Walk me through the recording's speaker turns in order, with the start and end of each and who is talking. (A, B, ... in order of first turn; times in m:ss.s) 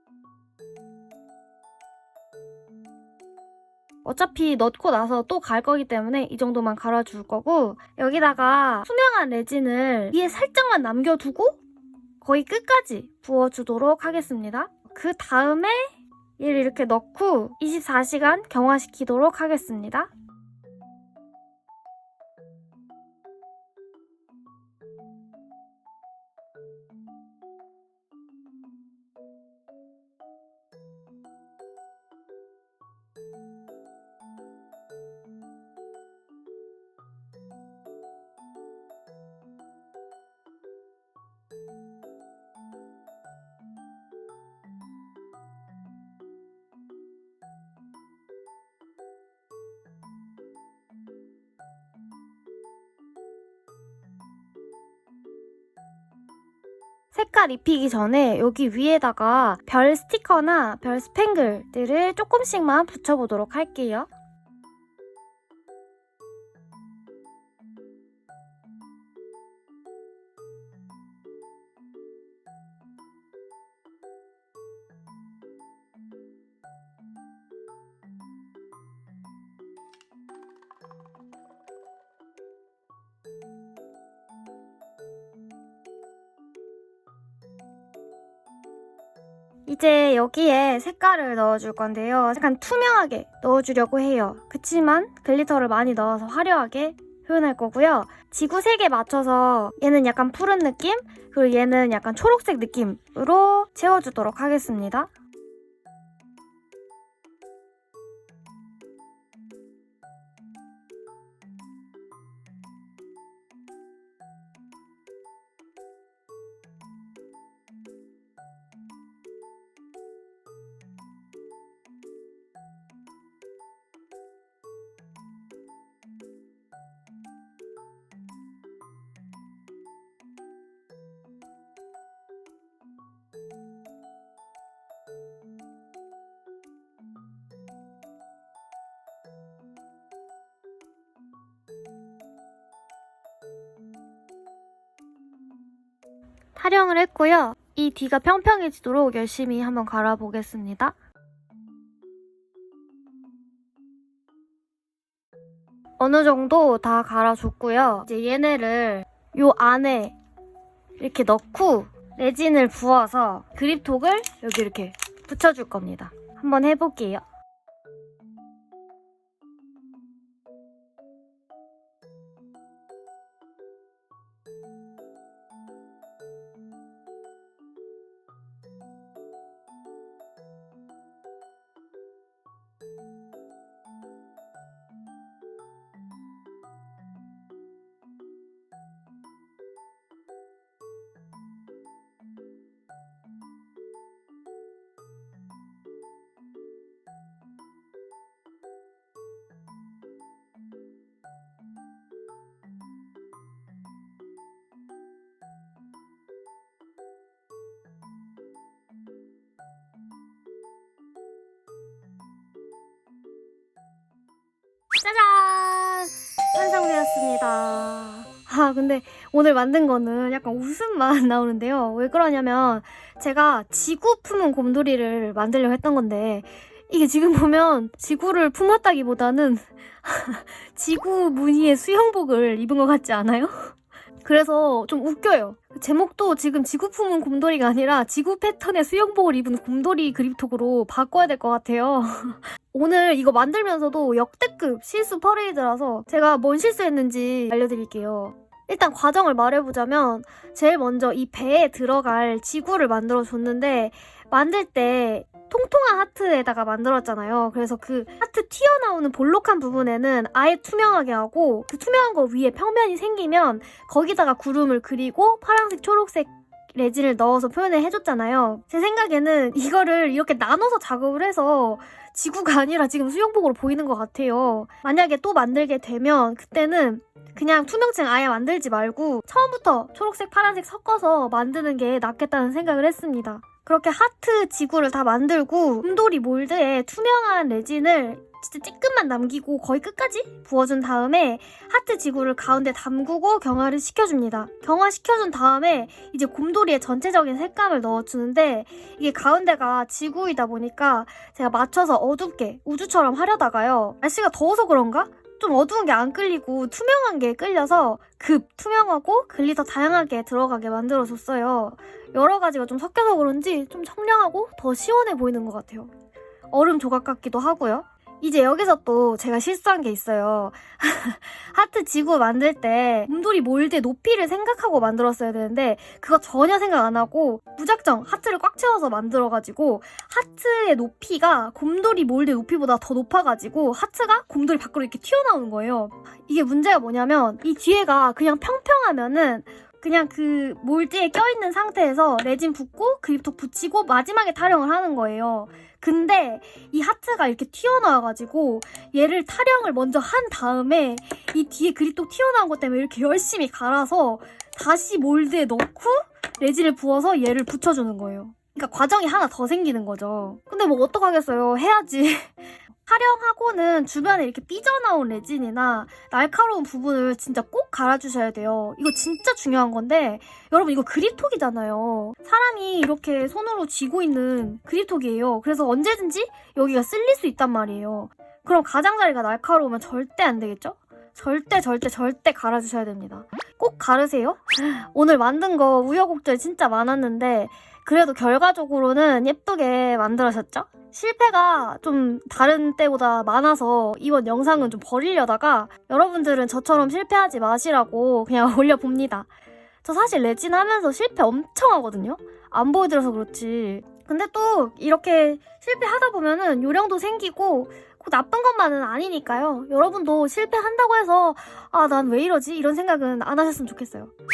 0:04.0-0:11.6 A
0:12.2-0:20.1 A
0:57.1-1:04.1 A
1:29.7-1:45.1 A
2:26.5-2:30.9 A
2:36.0-2:40.1 A
2:41.0-2:47.2 A
3:34.9-3:53.7 A
3:54.2-5:15.9 A
5:16.5-6:39.3 A
6:39.8-6:54.1 A